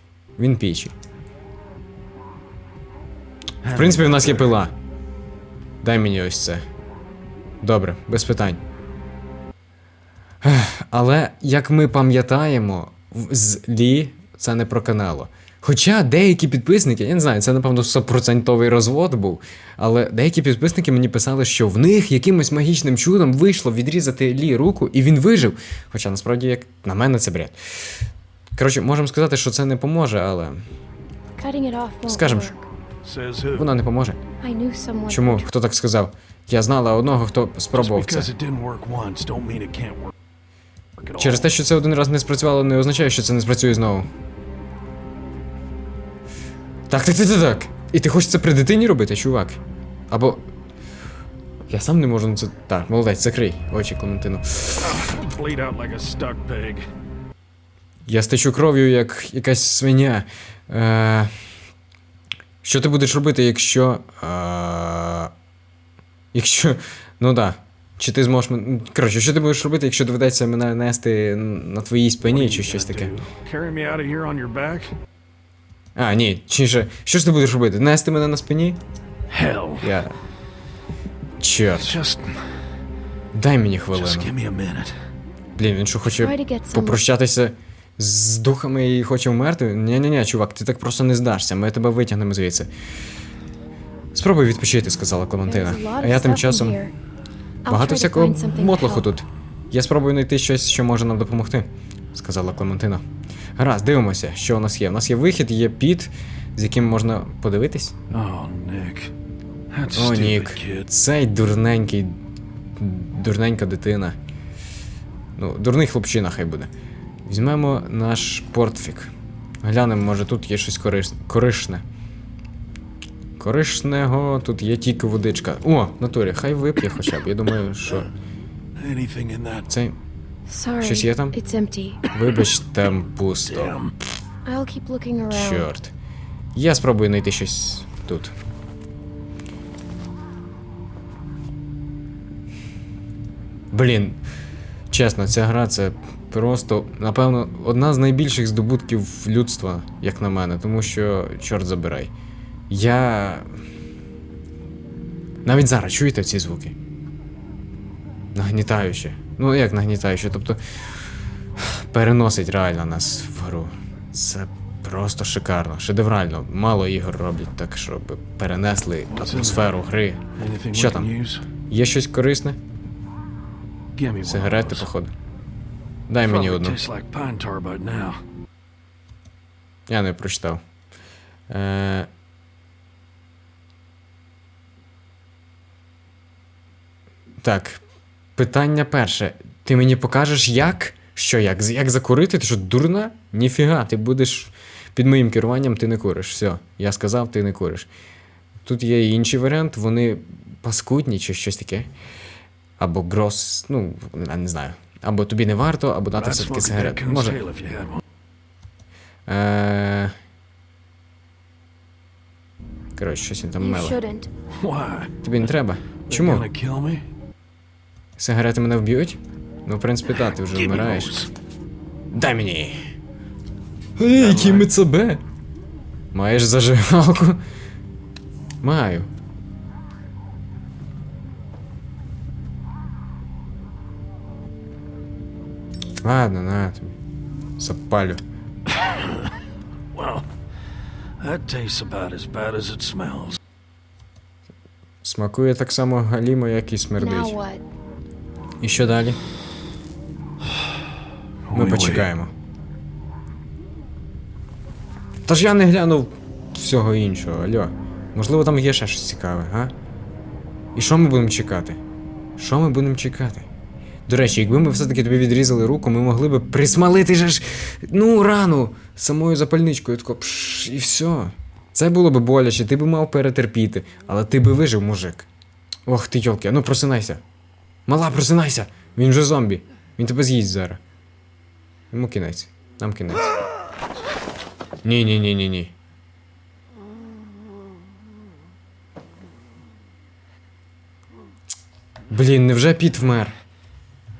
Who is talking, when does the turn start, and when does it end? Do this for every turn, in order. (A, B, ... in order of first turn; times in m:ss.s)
0:00.4-0:00.9 A
0:03.6-0:04.5 B
0:03.6-0:04.7 A
0:05.8-0:06.6 A
0:07.6-0:08.6 A
0:10.4-0:27.6 A
0:28.5-0:30.6 A
0:31.4-0:32.6 C
0:32.1-0:32.5 A
0:33.0-0:33.7 B
0:33.5-0:34.2 A
0:34.4-0:35.5 C
0:35.1-0:38.3 A
0:37.7-0:40.1 B
0:41.0-0:41.5 B
0:41.2-0:44.1 A
0:46.9-0:50.5 A
0:51.7-0:55.0 A
0:54.8-0:56.9 B
0:58.1-1:01.3 A
1:02.6-1:05.3 A
1:06.3-1:13.1 A
1:12.2-1:14.9 B
1:16.0-1:18.8 A
1:19.3-1:19.9 B
1:19.8-1:20.2 A
1:21.4-1:22.0 A
1:21.7-1:22.7 B
1:23.3-1:24.3 A
1:23.9-1:25.0 B
1:25.6-1:32.7 A
1:26.0-1:27.0 C
1:34.1-1:36.8 A
1:35.4-1:36.9 C
1:37.6-1:39.1 C
1:37.7-1:43.0 A
1:43.6-1:48.0 A
1:48.1-1:49.1 B
1:49.7-1:50.8 B
1:49.9-1:52.2 A
1:52.8-1:54.2 A
1:55.4-1:56.7 A
1:57.2-1:59.1 A
1:59.6-2:01.8 A
2:03.4-2:08.1 A
2:08.8-2:09.7 B
2:09.7-2:10.0 A
2:10.5-2:12.1 C
2:10.8-2:11.4 A
2:12.1-2:13.8 A
2:13.4-2:13.9 B
2:14.4-2:15.7 C
2:15.3-2:15.9 A
2:16.5-2:18.3 A
2:23.7-2:24.2 A
2:24.9-2:32.1 A
2:32.7-2:33.5 A
2:35.4-2:36.7 A
2:38.3-2:40.6 A
2:41.6-2:50.2 A
2:49.1-2:49.8 B
2:50.4-2:51.4 B
2:50.7-2:51.1 A
2:51.7-2:52.6 A
2:54.0-2:54.9 B
2:54.2-2:55.1 A
2:56.1-2:56.8 A
2:56.2-2:58.2 B
2:59.9-3:00.6 A
3:01.5-3:02.1 A
3:07.4-3:07.8 A
3:08.4-3:17.9 A
3:18.6-3:21.9 A
3:22.8-3:27.4 A
3:26.1-3:28.0 B
3:29.3-3:30.1 A
3:33.0-3:34.0 A
3:33.6-3:34.3 C
3:34.6-3:35.1 B
3:35.2-3:36.5 A
3:36.1-3:37.0 B
3:38.2-3:41.2 A
3:40.2-3:41.3 B
3:42.1-3:42.8 A
3:44.0-3:45.2 A
3:44.1-3:44.7 B
3:46.1-3:47.4 A
3:48.6-3:49.1 A
3:56.0-3:56.9 A
3:57.6-3:58.2 A
3:59.9-4:00.2 B
4:01.2-4:03.4 B
4:05.0-4:07.4 A
4:07.0-4:07.6 C
4:08.6-4:09.2 A
4:11.5-4:12.1 B
4:11.5-4:12.3 A
4:15.2-4:19.7 A
4:20.7-4:21.8 A
4:22.4-4:23.5 A
4:24.1-4:35.3 A
4:35.8-4:37.2 A
4:37.9-4:40.8 A
4:41.9-4:43.3 A
4:44.8-4:45.7 A
4:52.1-4:53.4 A